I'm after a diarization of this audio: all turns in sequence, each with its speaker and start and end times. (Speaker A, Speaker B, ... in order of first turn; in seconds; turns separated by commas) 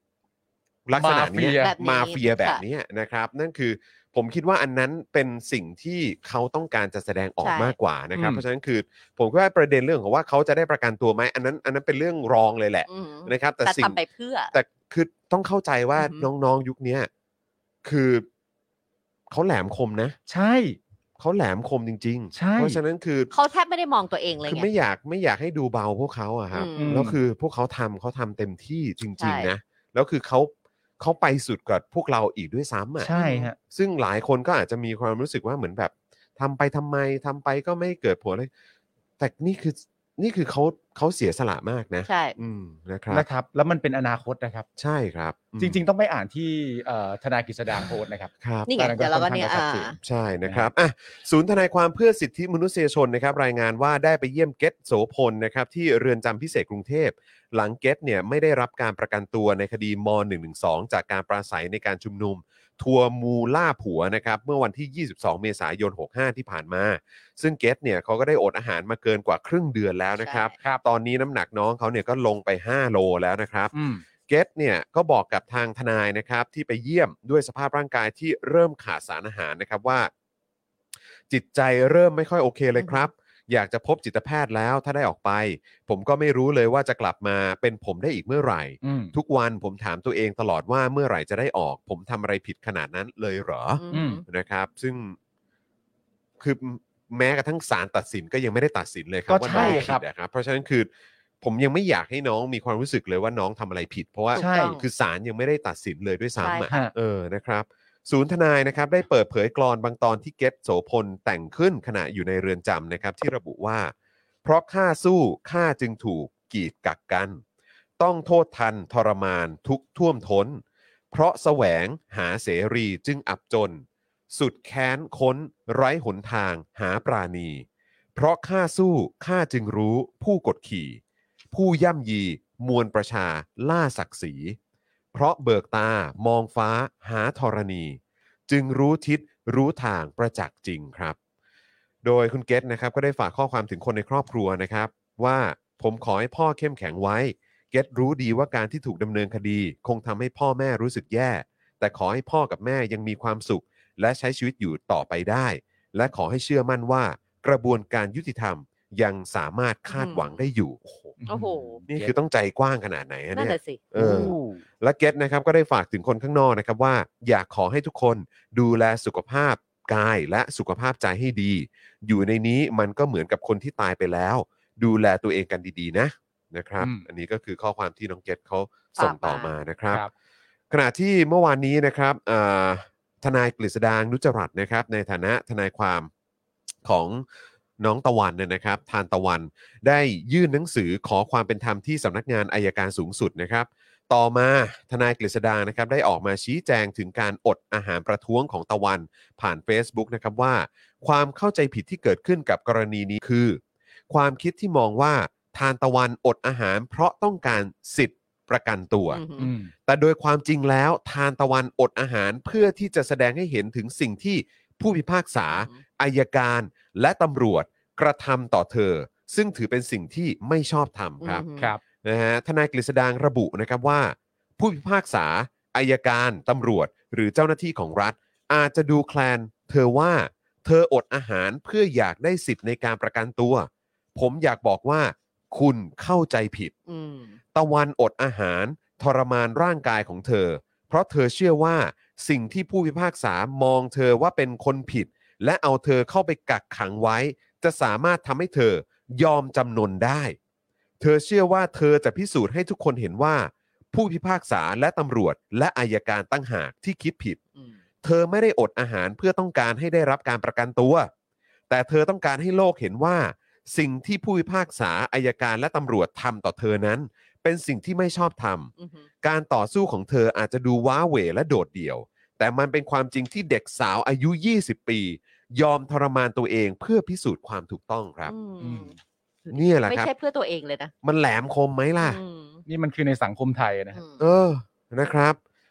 Speaker A: 0.9-14.0, Speaker B: 1.0-1.7, Speaker C: 1.6-2.6, Speaker C: 7.4-7.8, Speaker B: 8.2-8.4, Speaker C: 12.9-14.5, Speaker A: 14.5-17.1, Speaker C: 16.0-16.3, Speaker A: 17.8-18.3, Speaker A: 19.3-20.2, Speaker B: 20.3-20.8, Speaker A: 21.2-23.3, Speaker B: 22.3-22.8, Speaker C: 23.3-24.7, Speaker A: 24.5-33.1, Speaker C: 26.5-27.0, Speaker B: 26.8-27.2, Speaker C: 29.2-29.5, Speaker B: 33.0-33.6, Speaker C: 33.1-33.5, Speaker A: 33.7-38.5, Speaker A: 39.2-43.3, Speaker C: 42.1-42.4, Speaker B: 43.1-44.7, Speaker A: 44.8-45.8, Speaker B: 45.6-50.7, Speaker A: 48.4-48.7, Speaker C: 48.7-50.0, Speaker A: 50.0-73.7, Speaker C: 70.2-70.5, Speaker B: 73.7-74.0, Speaker A: 74.3-80.1, Speaker A: 81.3-95.2, Speaker C: 82.8-83.1, Speaker B: 88.8-89.1, Speaker C: 93.8-94.2, Speaker B: 93.9-94.2, Speaker A: 96.4-100.9, Speaker B: 99.3-100.0, Speaker C: 99.5-99.8, Speaker A: 101.4-113.9, Speaker C: 104.3-104.8, Speaker B: 104.4-104.8, Speaker C: 106.4-106.7, Speaker A: 114.4-117.4, Speaker A: 118.0-131.0, Speaker A: 131.5-134.6, Speaker A: 135.1-141.2, Speaker A: 142.0-161.1, Speaker C: 159.9-160.4, Speaker B: 161.2-162.1, Speaker C: 161.3-161.9, Speaker A: 161.9-180.1, Speaker C: 163.3-164.3, Speaker B: 164.0-164.6, Speaker B: 176.8-177.1, Speaker C: 179.0-179.5, Speaker A: 180.7-186.1, Speaker A: 186.8-187.2, Speaker A: 187.8-221.5, Speaker C: 209.1-209.5, Speaker B: 209.4-209.7, Speaker C: 215.5-215.8, Speaker C: 221.2-221.7, Speaker A: 222.0-236.7, Speaker C: 236.9-237.4, Speaker A: 237.6-250.4, Speaker A: 251.0-257.4, Speaker A: 258.0-261.1, Speaker A: 261.7-268.7, Speaker C: 268.8-269.1, Speaker A: 269.2-278.3, Speaker C: 278.3-278.9, Speaker B: 278.6-279.0, Speaker C: 279.5-280.9, Speaker A: 279.5-280.1, Speaker A: 281.0-282.2, Speaker C: 282.0-282.6, Speaker B: 282.7-284.0, Speaker C: 283.9-284.2, Speaker A: 284.2-285.4